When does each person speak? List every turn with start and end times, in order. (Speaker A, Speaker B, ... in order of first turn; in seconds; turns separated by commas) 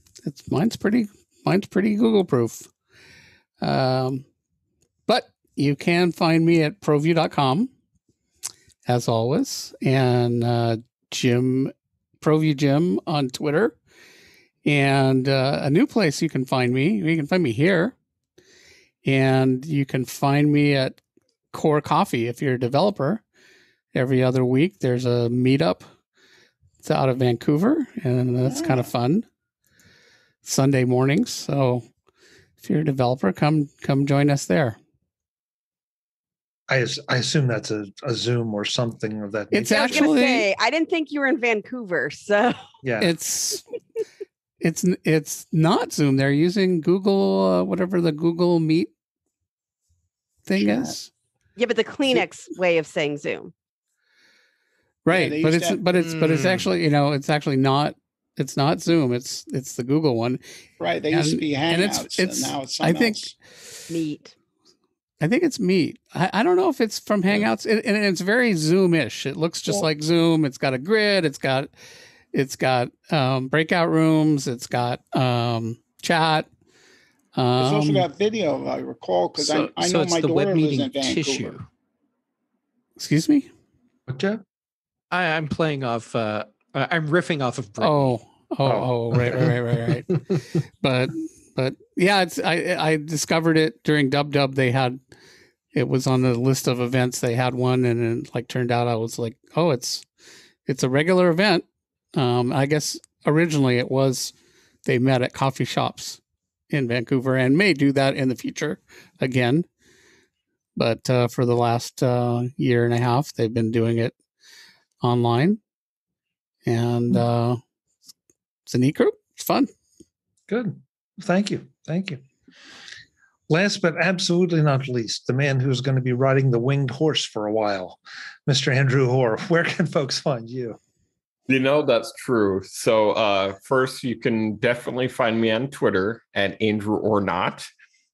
Speaker A: 0.2-2.7, Speaker A: 3.6-4.2, Speaker A: 5.1-7.7, Speaker A: 8.8-13.8, Speaker A: 14.6-17.9, Speaker A: 19.0-21.0, Speaker A: 21.5-23.2, Speaker A: 23.9-25.9, Speaker A: 26.8-29.2, Speaker B: 28.4-28.9, Speaker A: 30.4-31.9, Speaker A: 32.6-34.8, Speaker C: 36.7-40.1, Speaker A: 39.5-40.5, Speaker D: 39.7-42.6, Speaker C: 42.8-43.1, Speaker A: 43.0-43.6, Speaker A: 44.6-48.9, Speaker A: 50.5-51.1, Speaker B: 50.6-50.9, Speaker D: 51.6-53.5, Speaker A: 55.0-60.4, Speaker B: 55.1-55.9, Speaker E: 56.0-56.7, Speaker B: 60.8-63.3, Speaker A: 61.1-63.3, Speaker D: 63.9-64.3, Speaker A: 65.2-71.7, Speaker A: 72.3-76.5, Speaker A: 77.3-78.1, Speaker B: 77.6-81.6, Speaker E: 79.4-81.7, Speaker A: 83.0-83.5, Speaker C: 84.1-84.4, Speaker E: 85.1-88.1, Speaker A: 87.8-90.1, Speaker C: 88.6-89.3, Speaker A: 90.8-95.0, Speaker A: 95.7-100.0, Speaker A: 100.7-104.3, Speaker A: 104.8-106.2, Speaker A: 106.7-109.7, Speaker A: 110.8-114.2, Speaker A: 115.0-115.6, Speaker A: 116.7-117.6, Speaker A: 118.7-119.7, Speaker C: 120.5-122.2, Speaker C: 123.5-130.8, Speaker F: 131.5-137.7